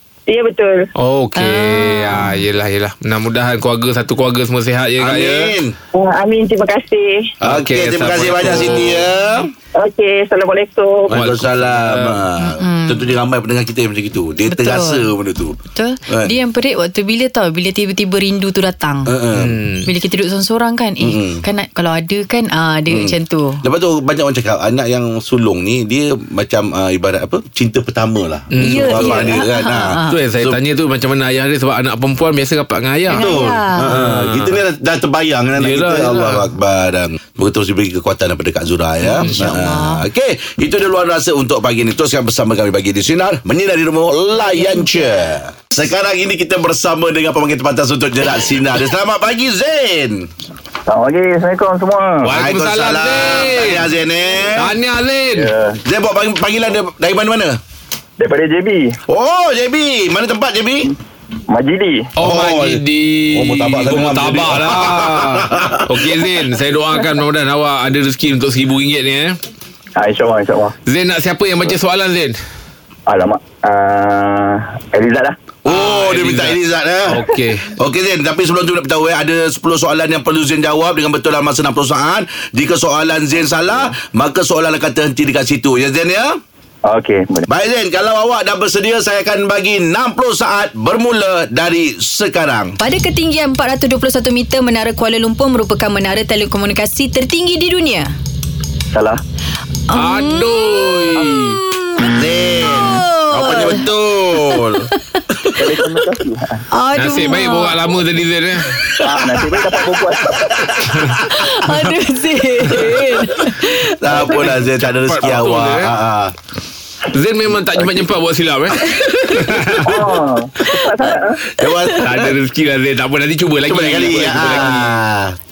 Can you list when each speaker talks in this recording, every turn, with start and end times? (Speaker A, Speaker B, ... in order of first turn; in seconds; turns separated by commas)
Speaker A: 0.3-0.8, Speaker B: 1.0-5.5, Speaker C: 1.4-2.4, Speaker D: 5.0-5.7, Speaker A: 5.9-7.3, Speaker D: 7.4-9.5, Speaker B: 7.4-9.0, Speaker A: 9.7-11.1, Speaker D: 11.1-15.6, Speaker B: 11.1-12.2, Speaker C: 12.4-13.1, Speaker C: 14.5-15.1, Speaker C: 15.7-19.2, Speaker D: 16.1-16.4, Speaker D: 19.1-19.6, Speaker B: 19.3-19.9, Speaker C: 19.8-23.6, Speaker D: 21.0-21.4, Speaker D: 22.9-30.6, Speaker B: 28.5-29.3, Speaker C: 28.6-30.2, Speaker B: 30.1-33.3, Speaker C: 33.1-34.0, Speaker D: 33.1-50.3, Speaker B: 33.8-34.5, Speaker B: 35.6-36.5, Speaker C: 39.0-40.0, Speaker C: 44.6-44.9, Speaker E: 50.9-52.3, Speaker B: 52.2-53.9, Speaker D: 52.3-54.7, Speaker B: 54.6-55.5, Speaker E: 55.3-55.8, Speaker D: 55.8-57.6, Speaker E: 58.2-59.0, Speaker D: 59.1-60.9, Speaker E: 61.5-62.1, Speaker B: 62.2-69.4, Speaker D: 62.2-66.2, Speaker E: 70.0-70.7, Speaker B: 70.9-72.3, Speaker E: 73.1-75.4, Speaker D: 75.6-86.3, Speaker B: 75.7-77.7, Speaker E: 86.8-87.5, Speaker D: 87.5-92.7, Speaker C: 92.8-98.1, Speaker E: 98.9-99.2, Speaker C: 99.9-103.9, Speaker B: 99.9-101.6, Speaker D: 102.1-104.9, Speaker C: 104.5-105.2, Speaker D: 105.4-105.8, Speaker E: 105.6-106.6, Speaker C: 106.7-107.8, Speaker B: 107.0-108.8, Speaker D: 108.9-111.2, Speaker E: 109.0-110.6, Speaker B: 110.9-111.2, Speaker C: 111.2-114.3, Speaker D: 114.0-116.3, Speaker B: 114.3-115.9, Speaker B: 117.1-120.2, Speaker E: 117.7-118.1, Speaker C: 118.9-119.5, Speaker E: 119.9-121.3, Speaker C: 120.7-121.1, Speaker D: 121.5-122.3, Speaker B: 122.0-124.9, Speaker D: 123.7-125.3